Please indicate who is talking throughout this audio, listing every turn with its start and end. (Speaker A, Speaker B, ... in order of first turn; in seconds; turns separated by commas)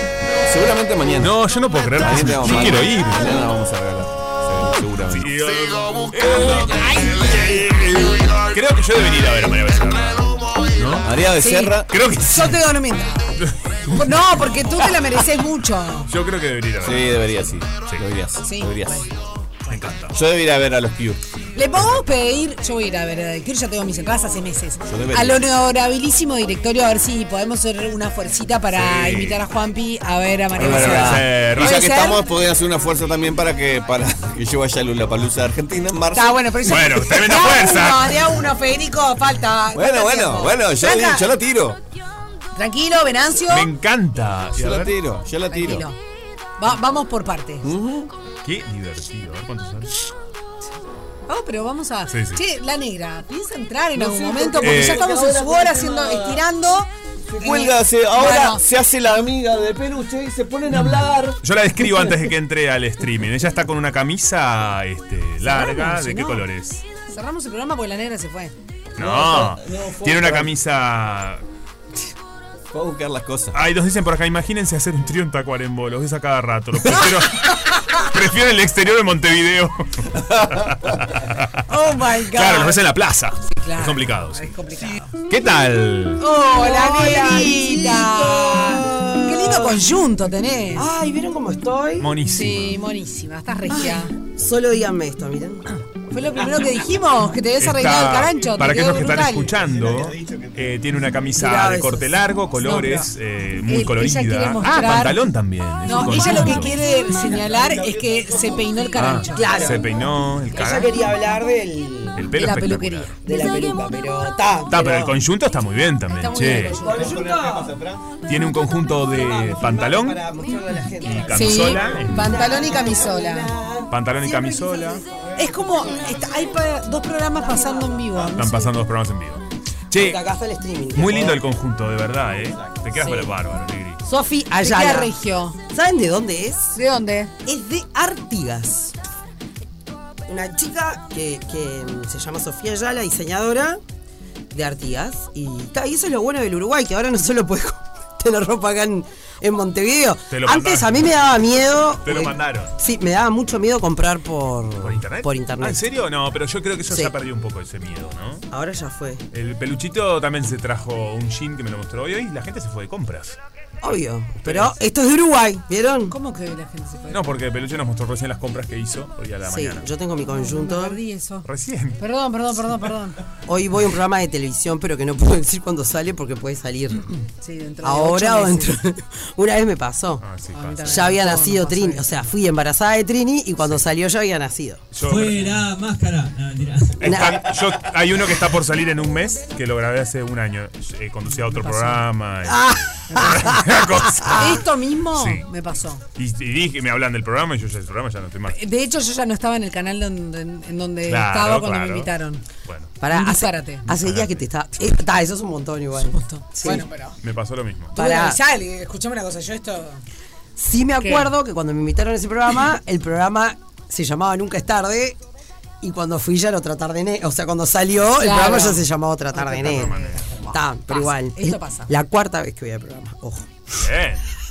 Speaker A: 0.4-1.4, Speaker B: 1.2-3.3, Speaker A: 1.9-5.4, Speaker B: 5.0-11.1, Speaker A: 6.1-7.1, Speaker C: 6.7-7.6, Speaker A: 10.9-11.9, Speaker C: 11.4-16.1, Speaker B: 11.9-12.6, Speaker B: 13.4-14.3, Speaker B: 16.1-18.0, Speaker A: 16.8-19.1, Speaker C: 18.4-19.1, Speaker B: 19.7-20.1, Speaker A: 20.1-21.2, Speaker C: 21.5-32.2, Speaker A: 24.9-25.4, Speaker B: 28.7-29.4, Speaker A: 30.6-36.6, Speaker B: 30.6-31.8, Speaker C: 36.1-41.3, Speaker B: 36.7-38.3, Speaker A: 39.7-41.8, Speaker C: 42.5-43.7, Speaker B: 43.5-45.0, Speaker A: 44.5-45.9, Speaker C: 45.5-45.9, Speaker C: 46.6-47.7, Speaker A: 47.6-48.1, Speaker B: 48.4-50.0, Speaker C: 51.3-58.6, Speaker B: 52.1-52.4, Speaker A: 53.9-56.4, Speaker B: 54.6-55.0, Speaker A: 57.3-61.4, Speaker B: 60.7-66.8, Speaker C: 65.4-66.5, Speaker C: 67.1-68.5, Speaker B: 69.0-71.4, Speaker A: 69.0-70.5, Speaker A: 72.7-73.6, Speaker B: 73.5-81.6, Speaker A: 80.3-80.8, Speaker C: 81.7-82.8, Speaker B: 82.2-84.5, Speaker C: 83.5-85.1, Speaker B: 85.2-86.2, Speaker D: 86.2-89.8, Speaker C: 86.2-90.9, Speaker D: 90.7-92.1, Speaker B: 92.0-92.8, Speaker C: 92.3-94.1, Speaker D: 93.7-95.7, Speaker C: 96.1-99.5, Speaker B: 97.6-106.7, Speaker A: 98.8-100.7, Speaker D: 101.3-102.1, Speaker C: 102.6-103.1, Speaker C: 103.7-105.3, Speaker C: 105.8-109.8, Speaker A: 106.7-109.2, Speaker B: 109.0-111.0, Speaker D: 109.3-109.9, Speaker D: 110.5-112.2, Speaker B: 112.2-113.1, Speaker C: 112.3-113.3, Speaker D: 113.2-115.2, Speaker B: 114.7-116.8, Speaker C: 116.1-117.2, Speaker D: 116.6-117.7, Speaker A: 116.8-118.2, Speaker B: 118.2-120.3, Speaker D: 119.1-126.1, Speaker B: 121.0-122.4, Speaker C: 121.3-123.5, Speaker A: 121.6-122.0, Speaker B: 123.9-125.0, Speaker C: 125.4-128.7, Speaker D: 127.4-128.4, Speaker B: 128.3-130.2, Speaker D: 129.9-131.4, Speaker B: 130.9-134.0, Speaker A: 132.6-132.9, Speaker D: 134.0-135.1, Speaker C: 134.6-135.6, Speaker D: 135.7-136.8, Speaker C: 136.7-137.3, Speaker D: 137.4-138.9, Speaker D: 140.3-143.8, Speaker D: 144.5-155.8, Speaker B: 150.3-151.1, Speaker B: 152.0-152.7, Speaker B: 154.8-158.4, Speaker D: 158.5-159.2, Speaker B: 159.3-163.4, Speaker D: 163.8-166.1, Speaker B: 164.4-164.7, Speaker C: 166.1-167.3, Speaker B: 167.1-169.9, Speaker D: 169.4-171.0, Speaker C: 170.3-171.4, Speaker B: 171.4-172.0, Speaker C: 172.0-173.2, Speaker D: 173.5-177.1, Speaker C: 177.4-178.8, Speaker D: 177.8-180.2, Speaker B: 180.2-181.2, Speaker C: 180.5-182.2, Speaker D: 180.8-184.8, Speaker B: 184.9-185.6, Speaker E: 185.0-187.1, Speaker B: 187.0-194.6, Speaker D: 187.0-187.4, Speaker C: 191.3-192.1, Speaker D: 192.4-194.6, Speaker C: 193.1-193.3, Speaker C: 194.3-196.0, Speaker B: 195.2-195.4, Speaker B: 196.1-198.6, Speaker C: 198.5-202.4, Speaker B: 201.1-202.1, Speaker B: 202.6-202.9, Speaker D: 203.0-206.8, Speaker C: 203.1-203.9, Speaker B: 203.9-204.4, Speaker C: 206.0-207.2, Speaker B: 207.2-208.0, Speaker D: 207.9-208.4, Speaker C: 207.9-210.0, Speaker D: 210.6-215.2, Speaker C: 211.0-211.3, Speaker D: 215.8-219.9, Speaker C: 218.2-221.9, Speaker B: 219.5-220.3, Speaker D: 220.5-223.5, Speaker B: 223.7-224.3